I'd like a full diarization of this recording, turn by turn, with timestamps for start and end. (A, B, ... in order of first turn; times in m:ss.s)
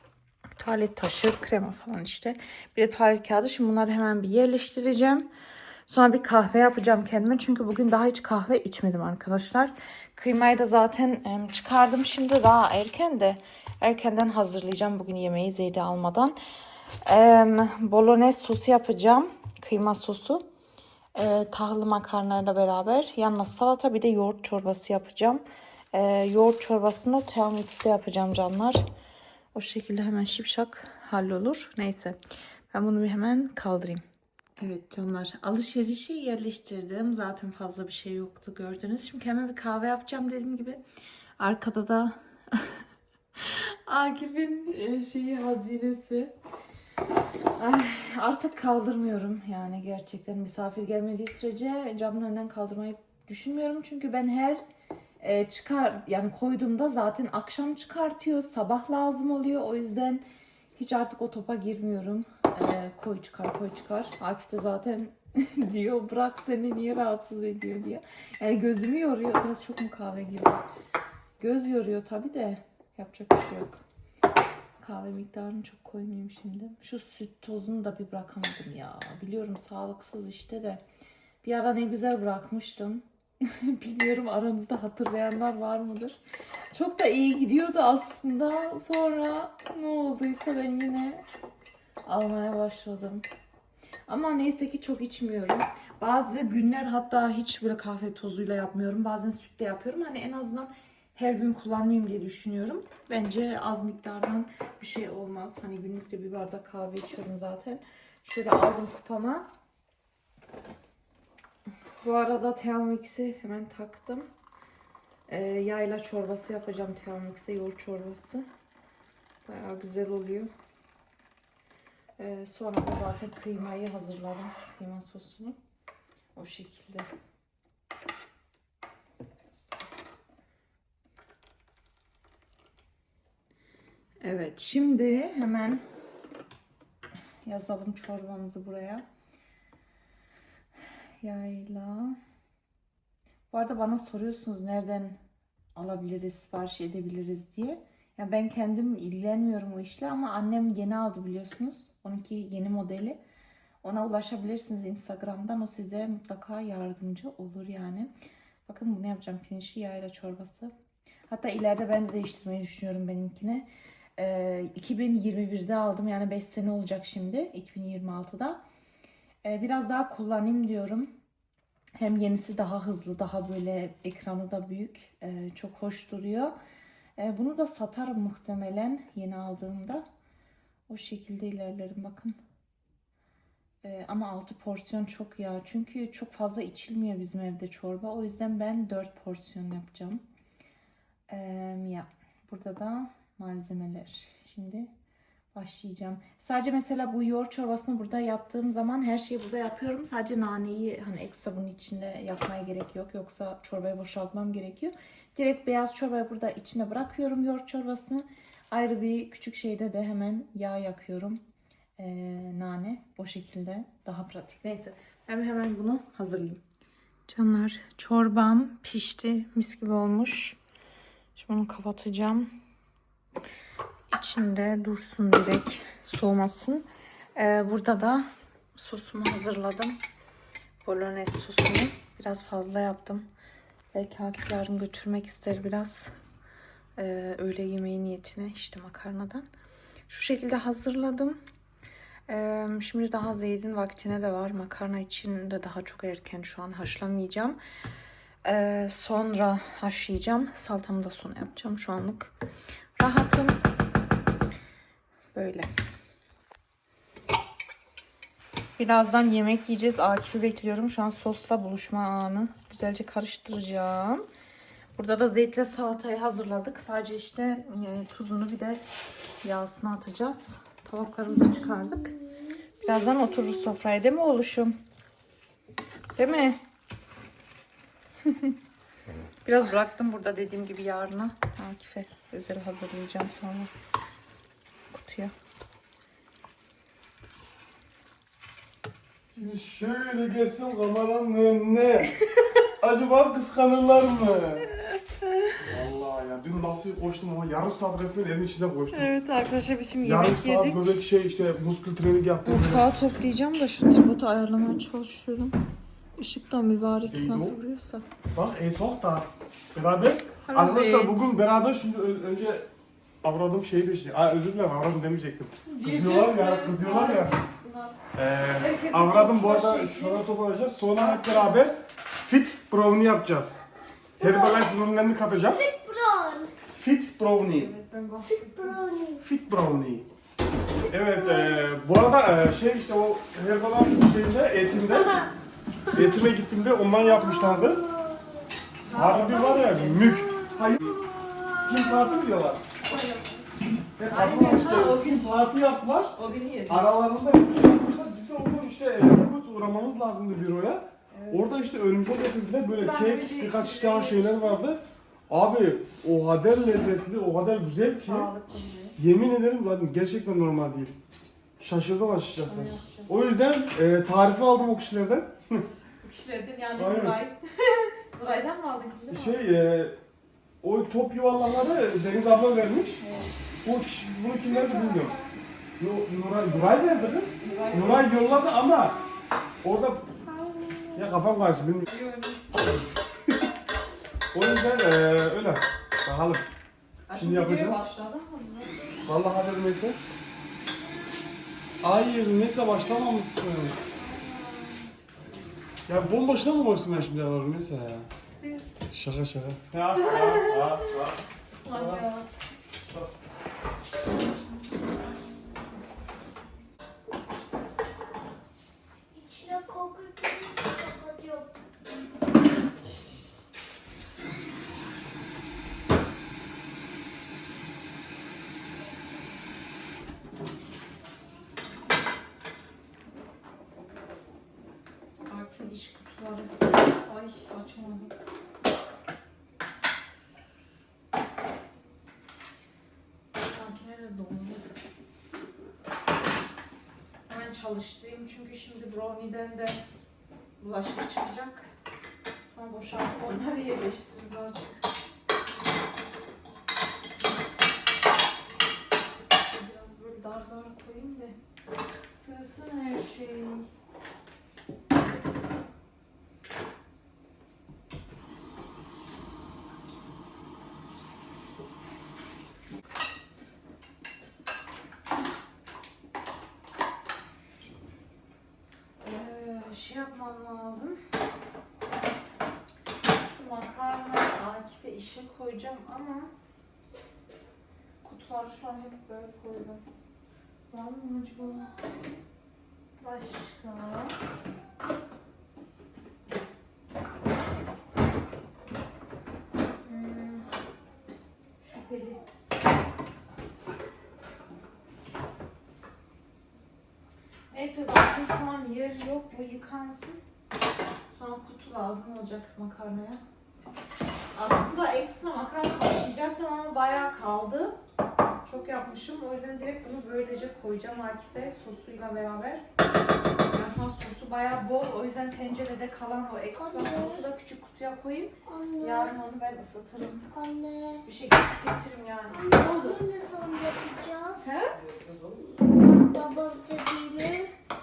0:00.6-0:05.3 A
0:05.9-0:16.4 A
0:17.0-0:20.4 A
0:21.1-0:28.8 A
0:29.5-0:32.2 A
0:32.7-0:34.0 A
0:34.6-0:40.8 A
0:41.4-0:42.8 A
0:43.4-0:46.3 A
0:47.6-0:54.6 A
0:55.2-1:00.2 A
1:00.8-1:10.6 A
1:11.4-1:13.8 A
1:14.8-1:20.8 A
1:21.4-1:26.2 A
1:26.7-1:31.2 A
1:32.0-1:33.2 A
1:34.1-1:49.5 A
1:52.0-1:54.2 A
1:55.3-1:58.5 A
1:59.4-2:00.5 A
2:02.2-2:05.6 A
2:06.3-2:07.1 A
2:09.5-2:09.9 A
2:14.2-2:15.8 A
2:17.4-2:19.0 A
2:21.2-2:22.2 A
2:23.5-2:25.2 A
2:25.8-2:33.2 A
2:33.8-2:38.1 A
2:38.6-2:40.7 A
2:41.3-2:48.6 A
2:49.4-2:51.1 A
2:52.0-2:56.5 A
2:57.2-3:00.0 A
3:00.9-3:02.4 A
3:03.8-3:10.2 A
3:11.3-3:14.9 A
3:15.5-3:31.4 A
3:32.0-3:36.6 A
3:37.3-3:40.6 A
3:41.4-3:42.5 A
3:44.1-3:50.0 A
3:50.8-3:53.3 A
3:53.9-3:56.1 A
3:57.0-3:59.4 A
4:00.1-4:01.4 A
4:02.3-4:07.6 A
4:08.4-4:12.3 A
4:13.0-4:13.6 A
4:15.3-4:15.7 A
4:18.8-4:24.2 A
4:25.0-4:28.8 A
4:29.4-4:32.2 A
4:32.8-4:34.7 A
4:36.2-4:36.6 A
4:38.2-4:38.6 A
4:39.4-4:43.7 A
4:44.9-4:45.3 A
4:49.4-4:52.1 B
4:52.8-4:54.7 B
4:54.8-4:55.6 A
4:55.6-4:59.1 B
4:58.9-5:01.0 A
5:00.0-5:02.9 B
5:02.4-5:05.6 A
5:06.2-5:08.0 A
5:07.0-5:07.6 B
5:08.3-5:12.7 B
5:10.5-5:11.3 A
5:13.2-5:17.3 B
5:15.6-5:18.0 A
5:18.1-5:23.6 B
5:18.6-5:20.2 A
5:21.0-5:21.6 A
5:24.2-5:24.7 C
5:24.2-5:25.6 B
5:25.4-5:26.5 C
5:26.7-5:27.7 B
5:27.4-5:28.8 A
5:28.2-5:29.2 C
5:29.2-5:30.0 B
5:30.9-5:35.3 B
5:31.0-5:31.6 C
5:34.9-5:35.3 C
5:35.9-5:37.8 B
5:37.0-5:38.5 C
5:38.9-5:40.1 A
5:38.9-5:41.0 B
5:39.9-5:42.1 C
5:41.5-5:42.6 B
5:42.8-5:43.5 A
5:44.0-5:46.2 B
5:44.1-5:45.3 A
5:46.1-5:46.8 A
5:46.7-5:58.3 B
5:51.1-5:51.5 A
5:52.7-5:54.6 A
5:58.0-5:59.0 A
5:59.0-6:00.9 B
6:01.6-6:05.7 B
6:02.4-6:03.3 A
6:06.0-6:09.4 A
6:06.8-6:07.2 B
6:09.1-6:10.0 B
6:10.6-6:13.0 B
6:13.0-6:13.3 A
6:13.6-6:15.2 B
6:14.4-6:15.3 C
6:15.8-6:19.0 B
6:17.3-6:18.1 A
6:19.6-6:20.1 B
6:20.2-6:21.0 C
6:20.9-6:21.9 B
6:21.9-6:22.8 A
6:24.3-6:26.4 B
6:27.1-6:29.0 A
6:27.2-6:27.8 B
6:29.0-6:30.0 B
6:31.8-6:33.8 B
6:33.9-6:34.9 A
6:35.9-6:38.1 B
6:38.4-6:38.6 A
6:38.9-6:42.0 B
6:40.0-6:40.9 A
6:41.6-6:42.3 A
6:49.1-6:51.5 C
7:05.3-7:08.1 A
7:13.3-7:14.6 A
7:17.3-7:19.8 A
7:20.6-7:21.6 A
7:22.5-7:24.7 A
7:29.5-7:31.4 A
7:32.1-7:33.7 A
7:49.0-7:51.0 A
7:53.2-7:56.3 A
7:58.0-7:59.8 A
8:00.7-8:01.7 A
8:03.0-8:04.2 A
8:09.8-8:10.4 A
8:11.6-8:12.2 A
8:17.5-8:20.2 A
8:21.1-8:23.2 A
8:24.3-8:27.8 A
8:28.4-8:32.6 A
8:33.5-8:40.2 A
8:36.6-8:37.2 C
8:38.4-8:39.1 C
8:40.3-8:41.1 C
8:41.0-8:43.0 A
8:42.3-8:44.5 C
8:44.4-8:44.8 A
8:44.7-8:45.6 B
8:45.7-8:47.5 C